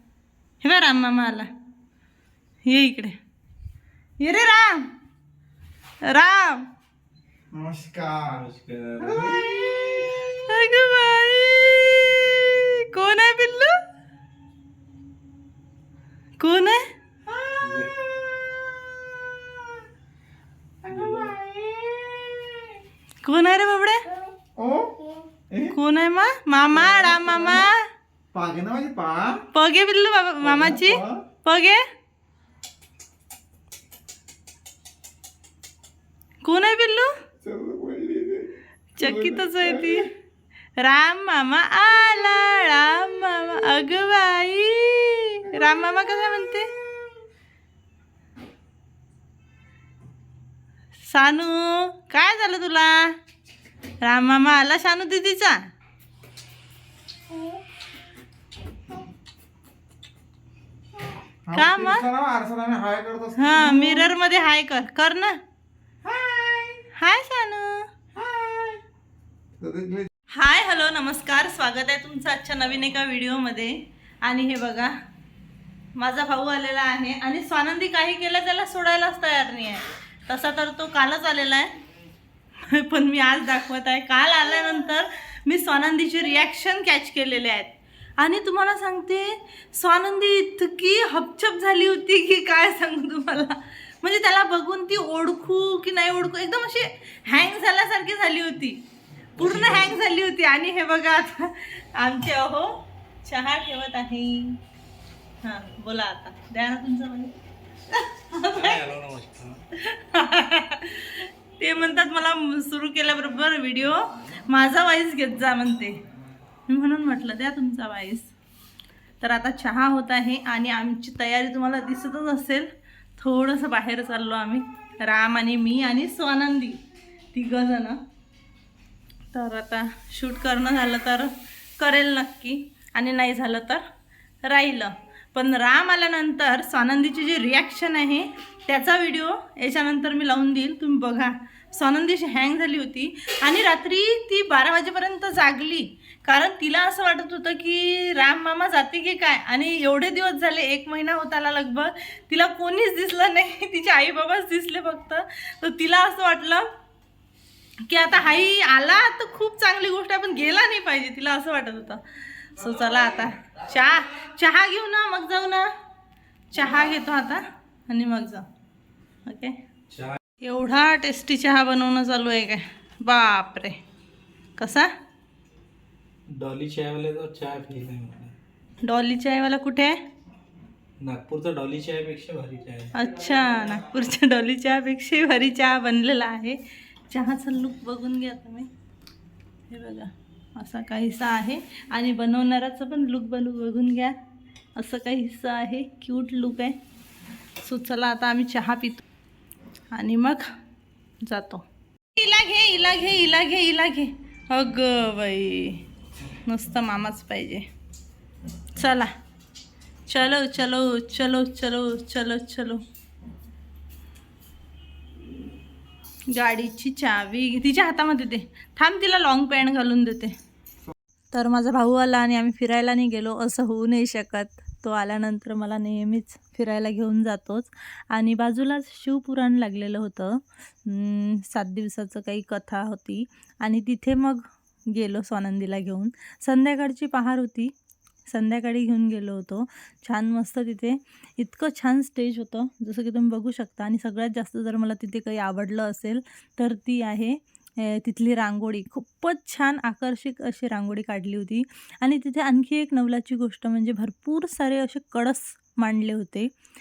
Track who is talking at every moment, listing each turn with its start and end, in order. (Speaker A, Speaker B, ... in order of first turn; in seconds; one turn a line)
Speaker A: 0.6-1.5
Speaker A: 2.6-3.1
Speaker A: 4.2-4.9
Speaker A: 6.0-6.7
Speaker B: 7.5-8.5
Speaker C: 8.3-9.4
Speaker B: 9.0-10.1
Speaker A: 10.5-13.8
Speaker A: 16.4-16.8
Speaker B: 17.3-17.5
Speaker C: 17.6-18.0
Speaker B: 20.8-22.8
Speaker C: 20.9-21.4
Speaker A: 23.2-24.1
Speaker B: 24.4-25.7
Speaker A: 25.7-27.8
Speaker B: 26.7-27.7
Speaker B: 28.3-29.4
Speaker A: 29.5-31.8
Speaker B: 30.4-31.2
Speaker A: 36.4-37.1
Speaker B: 37.4-40.1
Speaker A: 39.0-40.1
Speaker A: 40.8-46.7
Speaker A: 51.1-53.2
Speaker A: 54.0-55.7
Speaker B: 61.5-64.1
Speaker A: 61.5-62.1
Speaker A: 63.4-65.4
Speaker B: 66.1-66.8
Speaker A: 67.0-67.9
Speaker B: 68.2-68.8
Speaker B: 69.6-70.1
Speaker A: 70.3-74.9
Speaker A: 76.0-81.7
Speaker A: 82.6-98.8
Speaker C: 99.4-100.0
Speaker A: 99.4-104.6
Speaker A: 105.4-107.3
Speaker A: 107.9-108.8
Speaker C: 108.5-109.6
Speaker A: 109.7-116.0
Speaker A: 116.7-118.3
Speaker A: 119.2-126.8
Speaker A: 127.3-128.0
Speaker A: 129.3-133.8
Speaker A: 134.4-156.7
Speaker A: 157.9-165.7
Speaker A: 166.5-168.4
Speaker A: 169.2-169.6
Speaker C: 169.9-170.2
Speaker A: 170.4-173.8
Speaker A: 174.6-174.9
Speaker C: 176.3-178.3
Speaker A: 178.8-180.0
Speaker C: 181.0-182.9
Speaker A: 182.9-188.7
Speaker A: 189.7-194.2
Speaker A: 194.8-196.8
Speaker A: 197.6-199.0
Speaker A: 199.9-200.5
Speaker A: 201.2-201.6
Speaker A: 202.2-207.7
Speaker A: 208.8-209.1
Speaker A: 210.1-212.8
Speaker A: 216.3-220.3
Speaker A: 221.3-237.7
Speaker A: 238.3-256.5